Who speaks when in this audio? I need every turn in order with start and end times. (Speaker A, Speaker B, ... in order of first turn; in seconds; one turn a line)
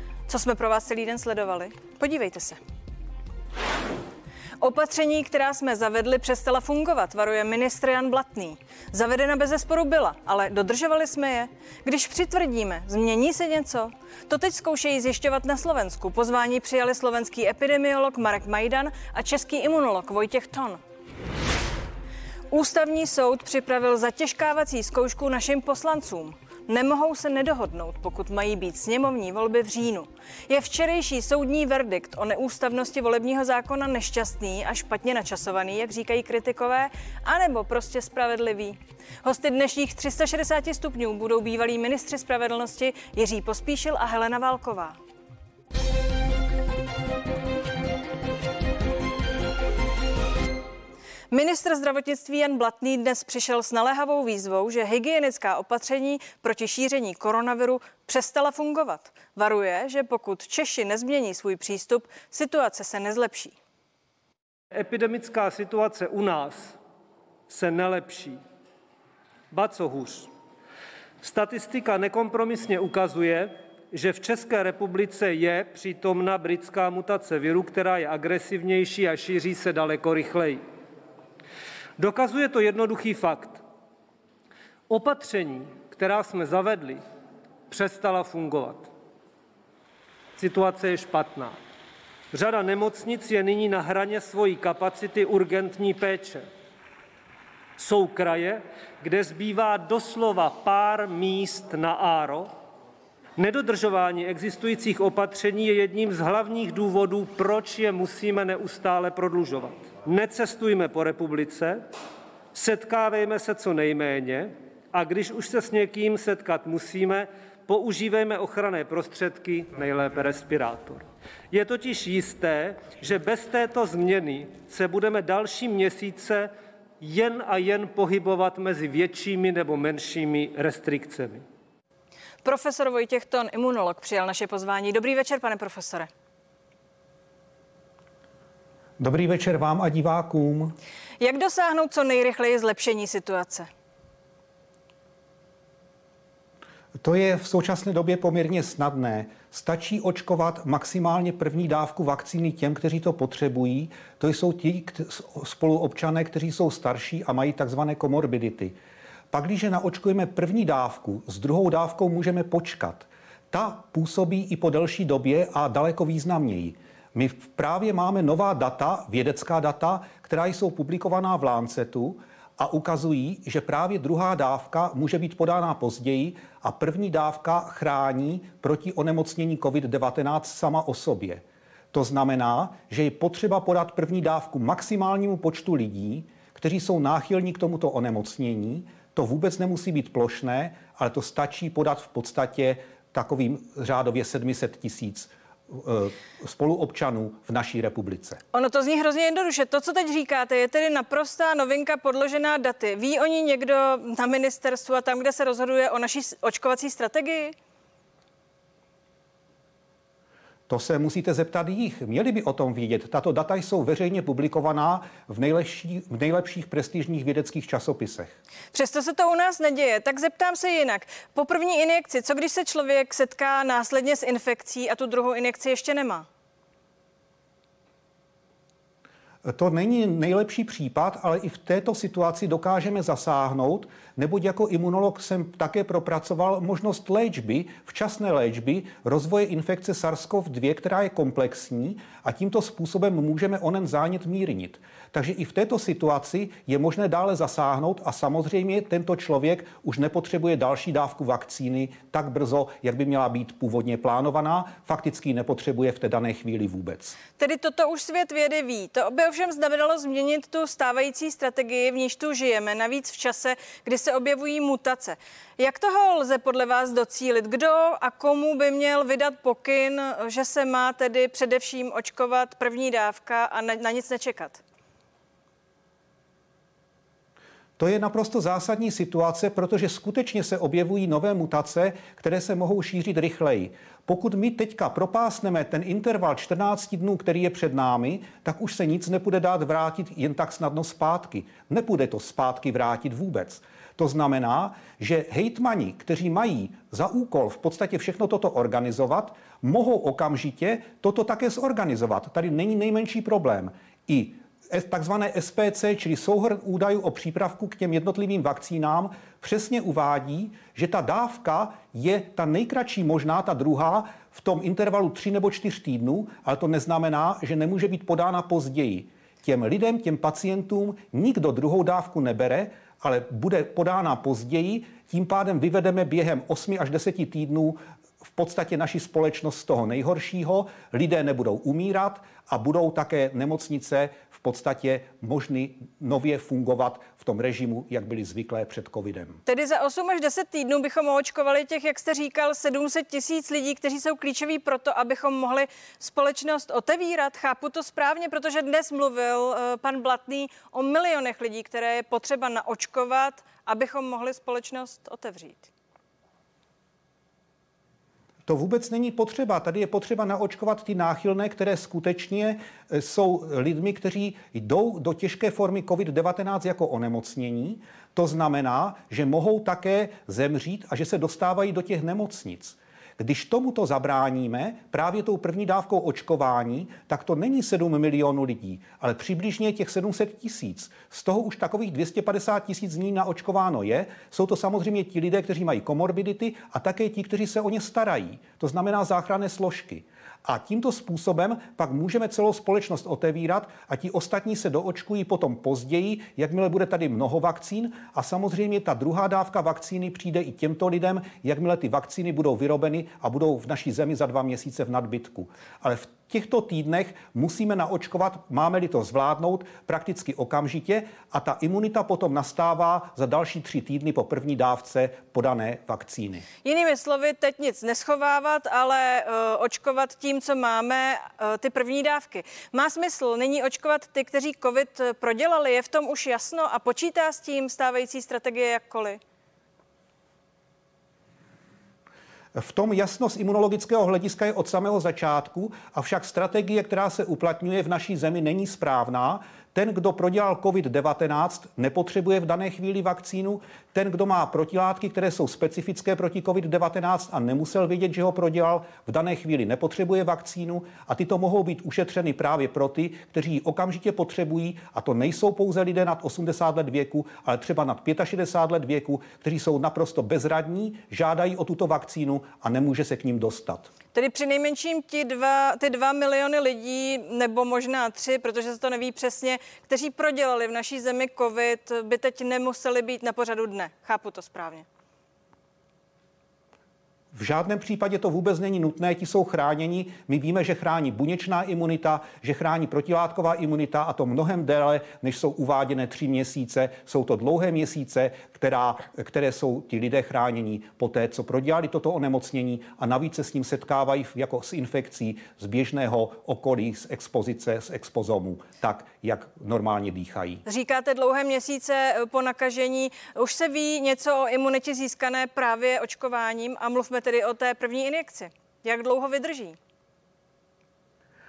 Speaker A: 0.3-2.6
Speaker A: 4.6-20.8
Speaker A: 22.5-45.0
Speaker A: 51.3-63.5
Speaker B: 64.7-66.8
Speaker B: 67.5-68.4
Speaker B: 69.5-70.3
Speaker B: 71.2-80.6
Speaker B: 82.0-83.6
Speaker B: 84.9-87.0
Speaker B: 87.7-88.9
Speaker B: 90.4-91.6
Speaker B: 92.3-96.5
Speaker B: 97.8-102.5
Speaker B: 103.4-111.9
Speaker B: 112.5-131.4
Speaker A: 132.4-136.1
Speaker C: 139.0-140.8
Speaker A: 141.2-143.7
Speaker C: 147.0-158.8
Speaker C: 159.3-198.4
Speaker A: 198.5-207.6
Speaker C: 210.7-218.3
Speaker A: 218.7-226.3
Speaker C: 229.4-257.2
Speaker A: 257.4-274.6
Speaker C: 277.8-339.4
Speaker A: 339.5-355.7
Speaker C: 358.5-416.5
Speaker A: 416.6-429.2
Speaker C: 432.6-463.9
Speaker A: 464.1-474.9
Speaker C: 477.3-500.6
Speaker A: 500.7-509.8